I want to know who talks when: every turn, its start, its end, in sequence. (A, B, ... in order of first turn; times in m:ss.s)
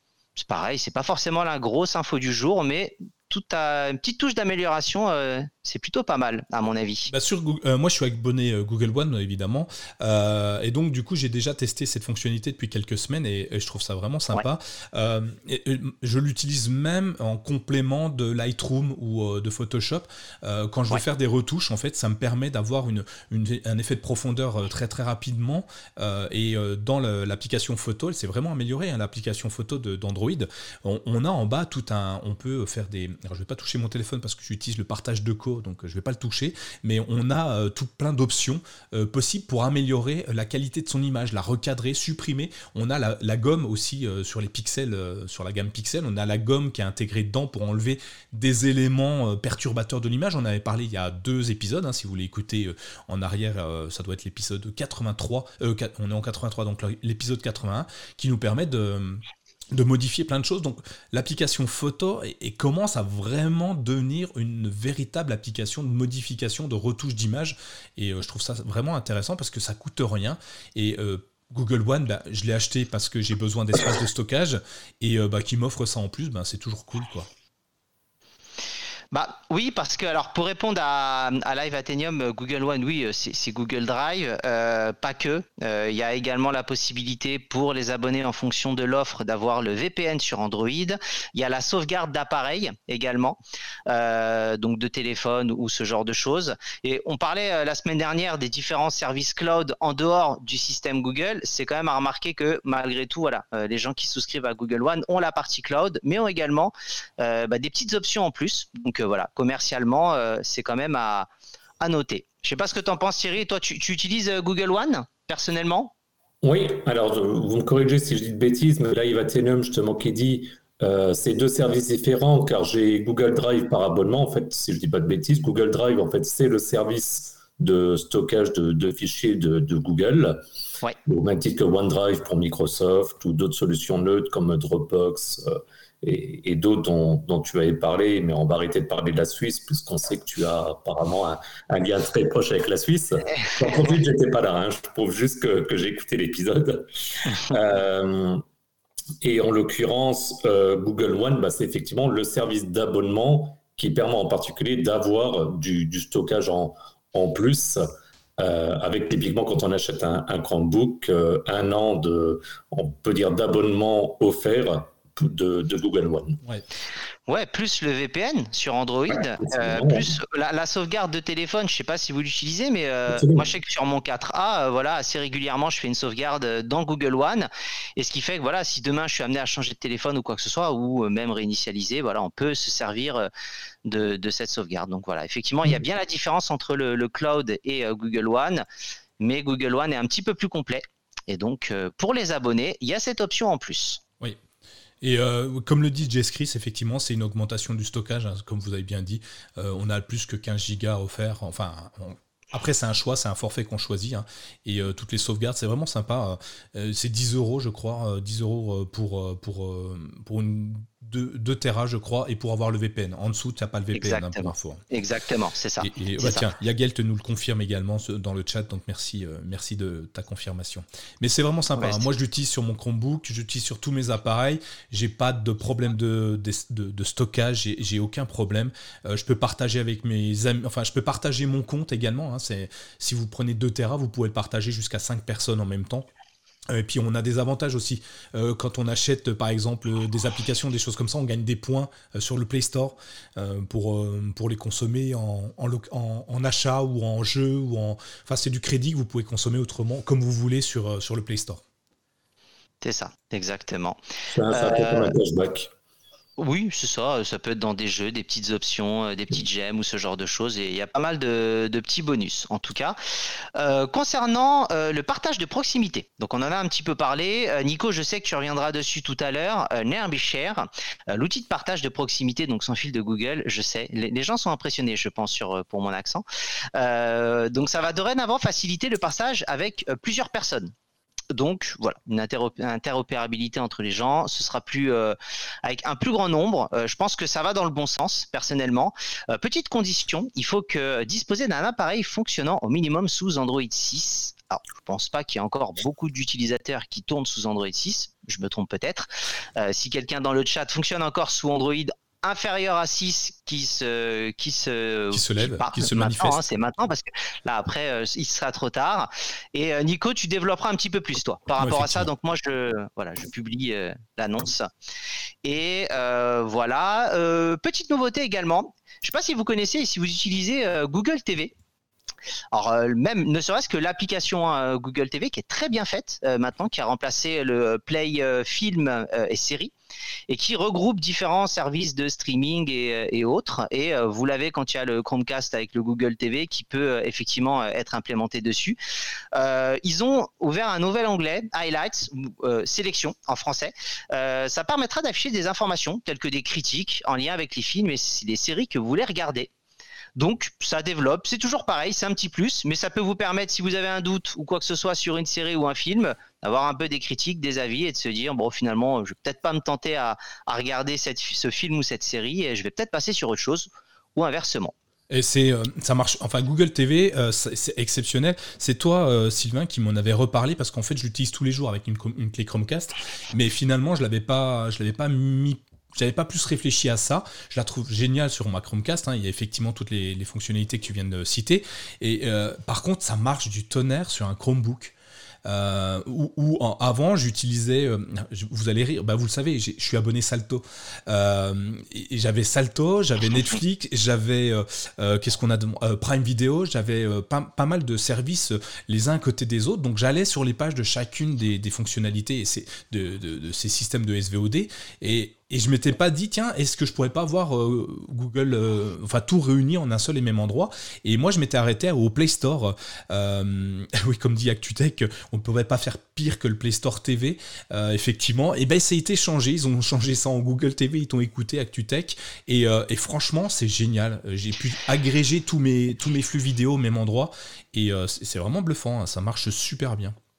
0:00.4-0:07.1 A
0:07.1-0:59.2 B
0:59.7-1:17.3 B
1:19.1-1:51.3 A
1:51.8-1:55.9 A
1:56.4-2:10.4 C
2:11.1-2:28.4 C
2:29.2-2:37.8 C
2:38.4-2:46.4 C
2:47.3-3:03.3 A
2:49.1-2:50.2 C
2:53.1-2:53.5 C
3:03.8-3:08.7 A
3:09.2-3:14.0 A
3:15.0-3:34.8 B
3:33.9-3:36.5 A
3:35.8-3:56.1 B
3:41.8-3:42.1 A
3:56.7-4:11.6 B
4:12.8-4:14.0 A
4:14.3-4:15.7 C
4:14.5-4:15.1 A
4:16.4-4:23.0 A
4:23.6-4:40.7 A
4:41.3-5:14.7 A
5:05.1-5:06.4 B
5:11.6-5:12.1 B
5:15.4-5:21.5 A
5:22.5-5:29.7 A
5:30.3-5:38.8 A
5:39.3-5:49.5 A
5:50.2-6:04.7 A
6:05.1-6:24.9 B
6:25.4-7:10.2 B